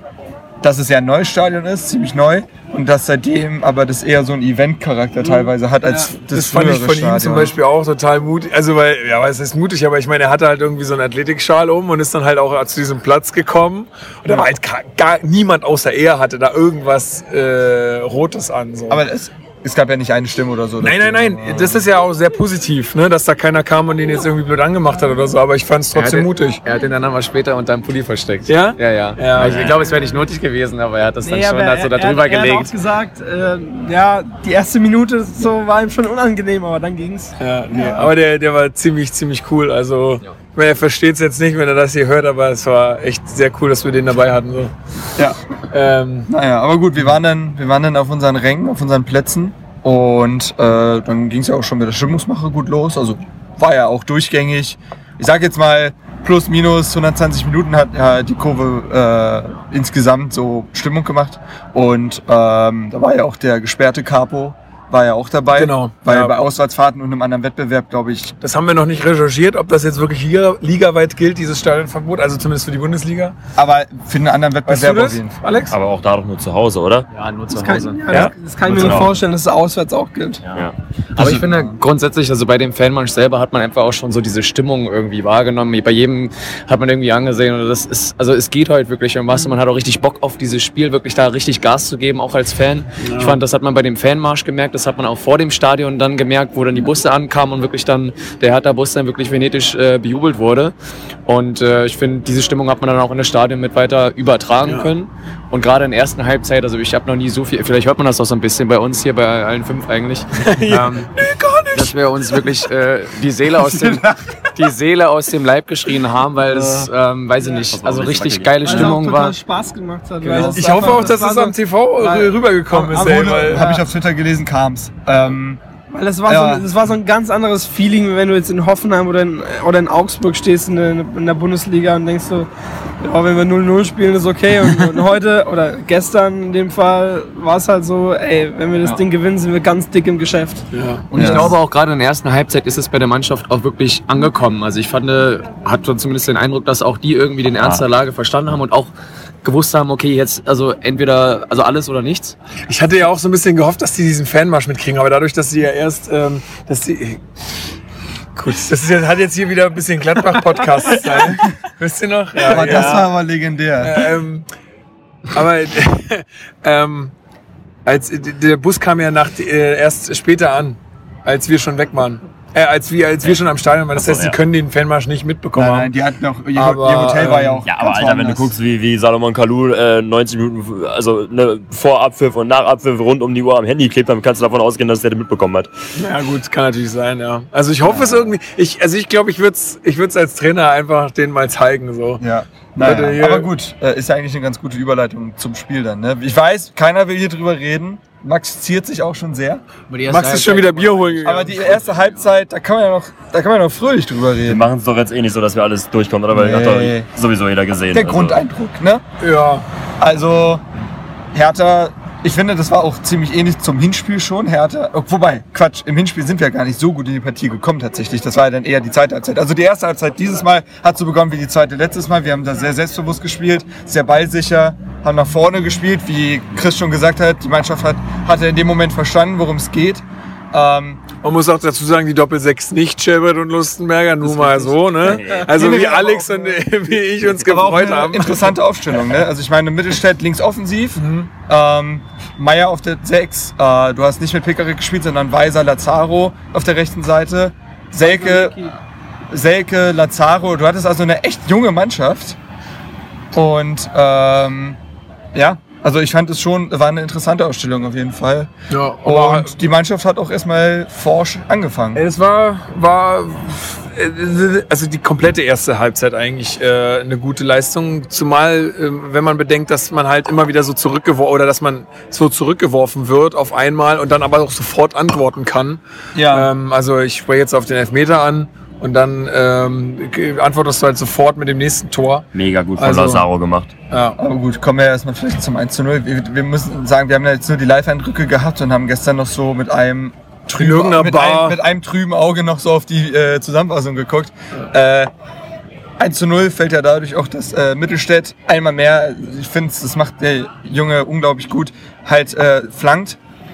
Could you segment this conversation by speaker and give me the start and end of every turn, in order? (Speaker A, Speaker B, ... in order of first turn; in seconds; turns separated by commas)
Speaker A: 0.6-7.6, Speaker B: 5.2-19.0, Speaker A: 18.9-21.9, Speaker B: 20.8-26.6, Speaker C: 25.9-32.7, Speaker B: 28.5-29.7, Speaker D: 29.4-29.9, Speaker E: 31.2-38.0, Speaker B: 37.4-44.7, Speaker B: 45.7-46.3, Speaker A: 46.3-68.3, Speaker B: 65.5-66.3, Speaker B: 68.4-73.3, Speaker A: 73.5-75.4, Speaker B: 74.6-75.7, Speaker D: 75.7-77.1, Speaker C: 77.1-78.0, Speaker E: 77.5-80.4, Speaker D: 78.7-79.2, Speaker D: 80.4-80.7, Speaker C: 81.1-100.7, Speaker A: 81.2-81.6, Speaker B: 93.0-93.4, Speaker C: 101.3-111.1, Speaker B: 104.6-104.9, Speaker B: 110.5-111.9, Speaker C: 111.7-119.3, Speaker A: 113.5-114.4, Speaker D: 117.6-119.0, Speaker E: 118.6-123.8, Speaker B: 120.2-123.6, Speaker A: 120.3-121.1, Speaker A: 122.7-125.6, Speaker E: 125.9-132.5, Speaker A: 126.2-126.7, Speaker E: 133.0-140.7, Speaker B: 140.7-141.5, Speaker A: 141.1-141.5, Speaker C: 141.1-148.9, Speaker D: 147.6-147.8, Speaker C: 149.4-152.3, Speaker B: 152.7-157.2, Speaker B: 158.3-163.1, Speaker A: 161.1-161.5, Speaker A: 162.4-164.1, Speaker B: 163.8-164.4, Speaker B: 165.3-167.1, Speaker B: 167.8-175.9, Speaker D: 173.2-174.4, Speaker A: 175.6-178.5, Speaker B: 176.5-177.6, Speaker D: 177.6-185.7, Speaker B: 185.9-192.2, Speaker A: 187.8-188.3, Speaker A: 192.2-199.6, Speaker B: 192.8-193.5, Speaker C: 199.9-202.0, Speaker B: 200.1-201.8, Speaker A: 201.2-204.7, Speaker D: 204.4-208.4, Speaker A: 206.3-207.1, Speaker A: 207.9-209.0, Speaker B: 209.2-209.6, Speaker A: 210.0-210.6, Speaker A: 211.3-231.0, Speaker B: 231.2-238.6, Speaker C: 234.3-234.8, Speaker D: 234.9-235.5, Speaker A: 235.5-236.5, Speaker A: 237.3-248.6, Speaker B: 241.0-241.3, Speaker E: 248.0-248.8, Speaker A: 249.3-252.4, Speaker A: 253.3-254.8, Speaker A: 255.3-258.5, Speaker B: 258.7-259.6, Speaker A: 259.0-262.0, Speaker B: 261.9-283.2, Speaker A: 276.1-276.5, Speaker D: 282.3-283.7, Speaker B: 283.9-284.2, Speaker A: 284.2-295.1, Speaker B: 290.5-291.6, Speaker A: 296.0-303.2